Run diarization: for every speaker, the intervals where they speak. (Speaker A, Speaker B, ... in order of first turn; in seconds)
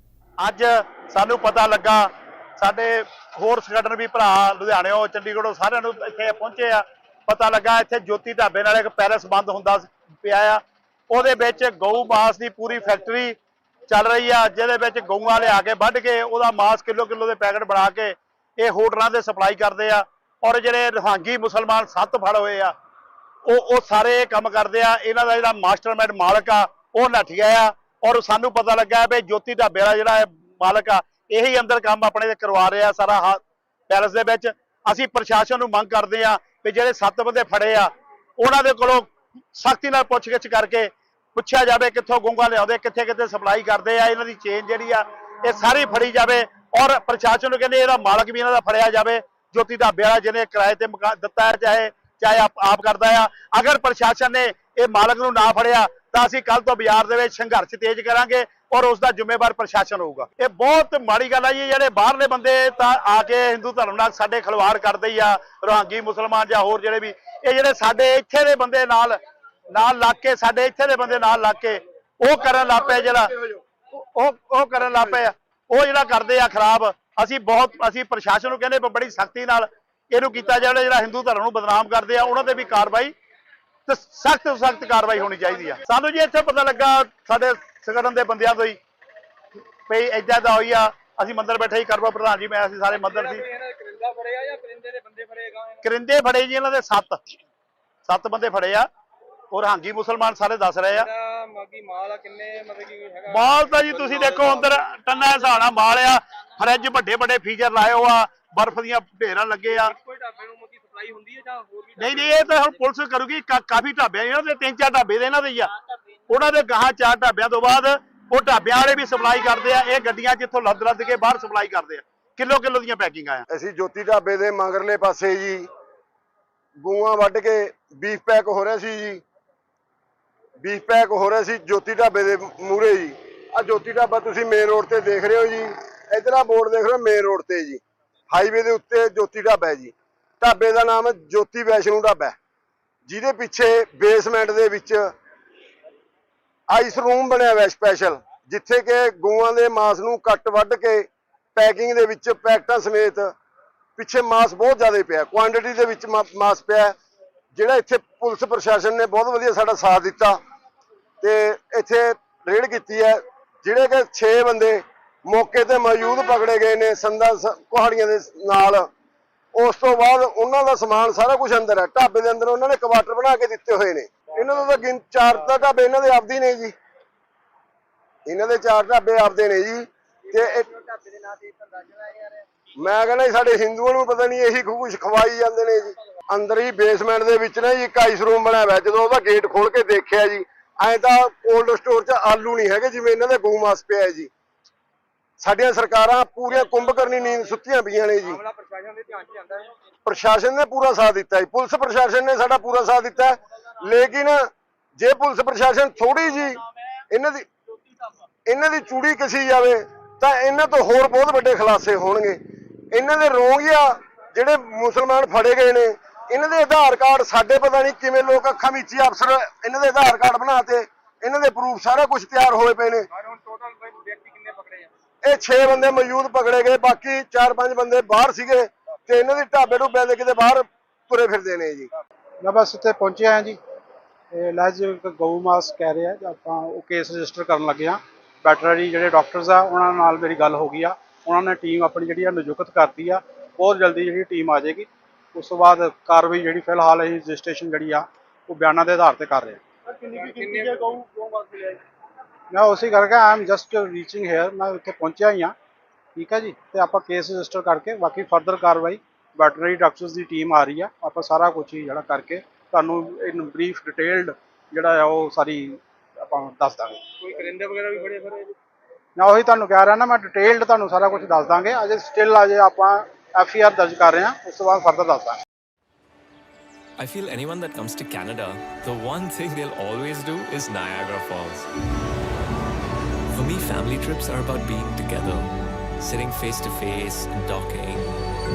Speaker A: 0.4-13.4, 13.9-22.7, 23.4-69.2, 69.7-83.1, 83.9-88.8, 89.9-93.5, 95.8-97.2, 98.0-98.9, 99.5-101.1, 103.3-109.9, 112.0-115.7, 116.3-123.4
Speaker B: 92.9-95.8, 100.9-104.7, 109.8-112.5, 180.4-182.4, 198.2-199.7, 223.1-224.9, 250.0-251.8, 267.2-268.5
Speaker C: 123.5-125.7, 126.8-129.2, 130.6-142.3, 143.1-145.1, 146.7-153.3, 154.0-156.9, 157.5-160.4, 161.2-168.9, 169.5-176.7, 178.2-180.7, 182.8-194.3, 195.4-198.4, 200.1-207.5, 208.5-212.4, 212.9-223.1, 225.2-231.9
Speaker D: 232.4-233.6, 234.3-250.5, 252.5-255.5, 256.1-267.0, 269.1-275.4
Speaker E: 277.0-281.7, 283.3-288.1